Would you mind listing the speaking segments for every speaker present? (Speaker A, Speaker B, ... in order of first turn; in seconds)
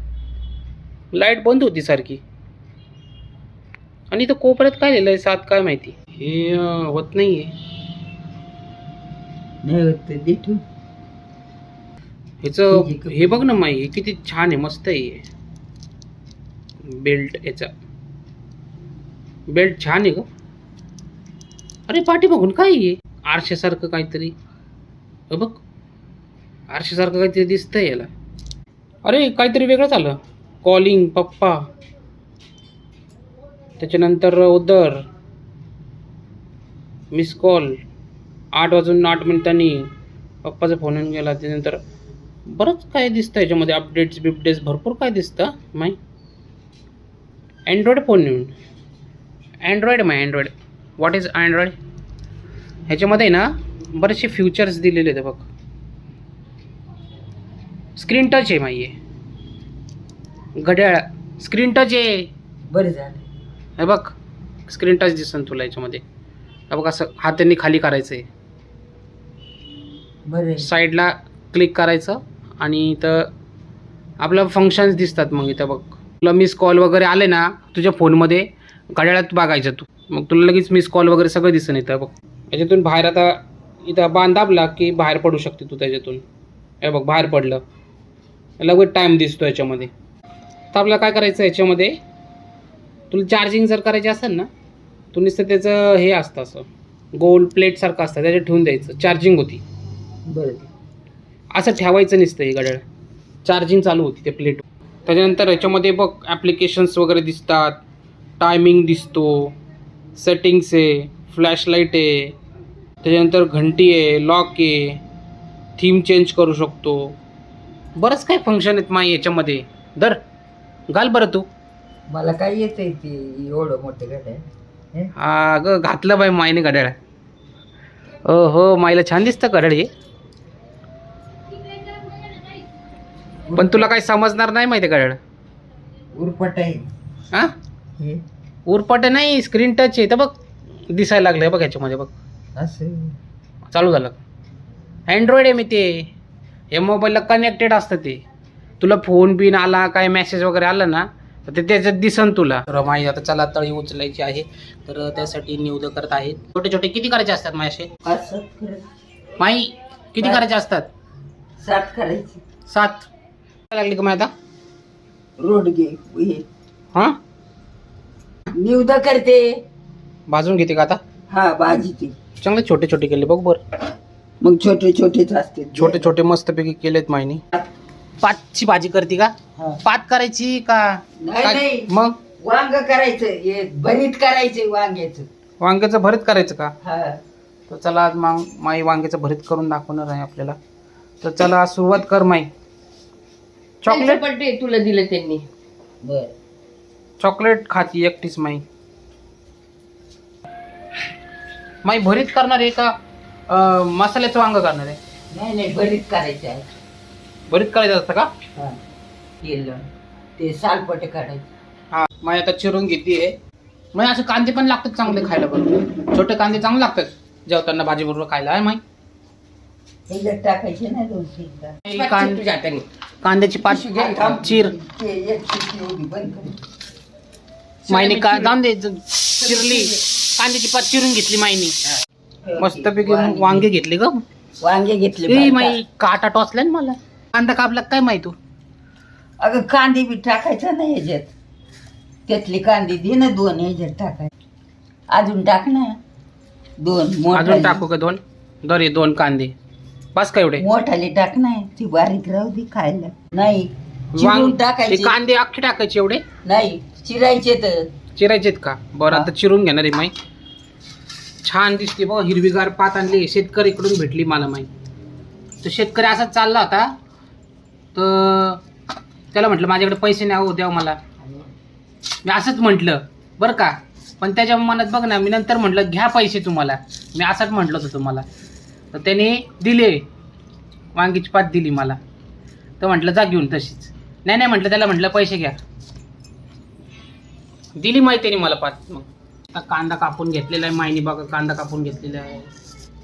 Speaker A: 1.1-2.2, 4.1-7.5, 12.4-15.2, 16.8-17.7, 19.5-20.2, 21.9-24.3, 25.3-25.6, 26.7-28.1, 29.0-31.6, 33.8-35.0, 37.1-37.8, 38.5-39.9, 40.4-41.8, 42.5-46.0, 47.7-48.5, 49.6-51.8, 52.9-55.5, 58.0-58.9, 60.6-62.3, 63.8-64.2, 64.7-66.0, 66.7-68.2, 70.6-73.3, 74.2-86.2, 86.8-87.6, 88.6-89.9, 90.7-92.0, 93.1-94.5, 95.1-99.6, 101.5-102.8, 103.4-107.8, 108.4-109.5, 110.2-112.3, 113.0-115.0, 115.8-117.1, 118.0-120.2, 120.9-121.5, 125.2-126.9, 128.2-129.9, 133.6-135.2, 138.7-140.3, 140.9-142.1, 143.6-144.2, 145.1-146.1, 146.7-148.2, 148.8-157.9, 159.4-160.9, 162.7-163.1, 163.7-164.3, 170.3-171.0, 172.4-173.6, 175.8-177.4, 178.2-182.2, 185.6-186.7, 187.7-190.6, 191.2-192.5, 193.8-194.2, 197.2-198.6, 201.8-202.9, 203.5-205.0, 207.5-208.3, 211.9-213.3, 213.9-218.8, 221.9-222.5, 223.2-224.7, 227.9-231.8, 232.6-234.2, 235.3-238.4, 247.3-249.5, 250.1-250.6, 254.1-256.2, 258.1-260.1, 261.4-264.7, 265.6-266.9, 267.9-268.6, 269.3-271.0, 272.2-278.2, 278.9-280.0, 280.9-282.0, 282.8-285.6, 287.8-292.5
Speaker B: 9.7-10.6, 12.7-13.4, 62.7-63.2, 70.3-70.7, 100.3-100.7, 122.1-124.4, 133.5-133.9, 136.2-136.9, 142.6-143.2, 158.0-158.9, 161.6-162.4, 165.4-166.4, 168.6-169.5, 171.3-172.1, 174.4-176.1, 181.2-185.3, 186.8-187.2, 196.0-196.3, 205.3-206.7, 209.4-209.9, 210.4-211.5, 220.1-221.8, 223.7-226.6, 227.8-228.6, 229.4-229.9, 232.4-233.7, 234.6-235.8, 239.4-241.3, 242.3-244.3, 245.1-246.0, 246.8-247.8, 250.6-255.1, 256.4-257.9
Speaker C: 193.9-195.5, 221.9-222.9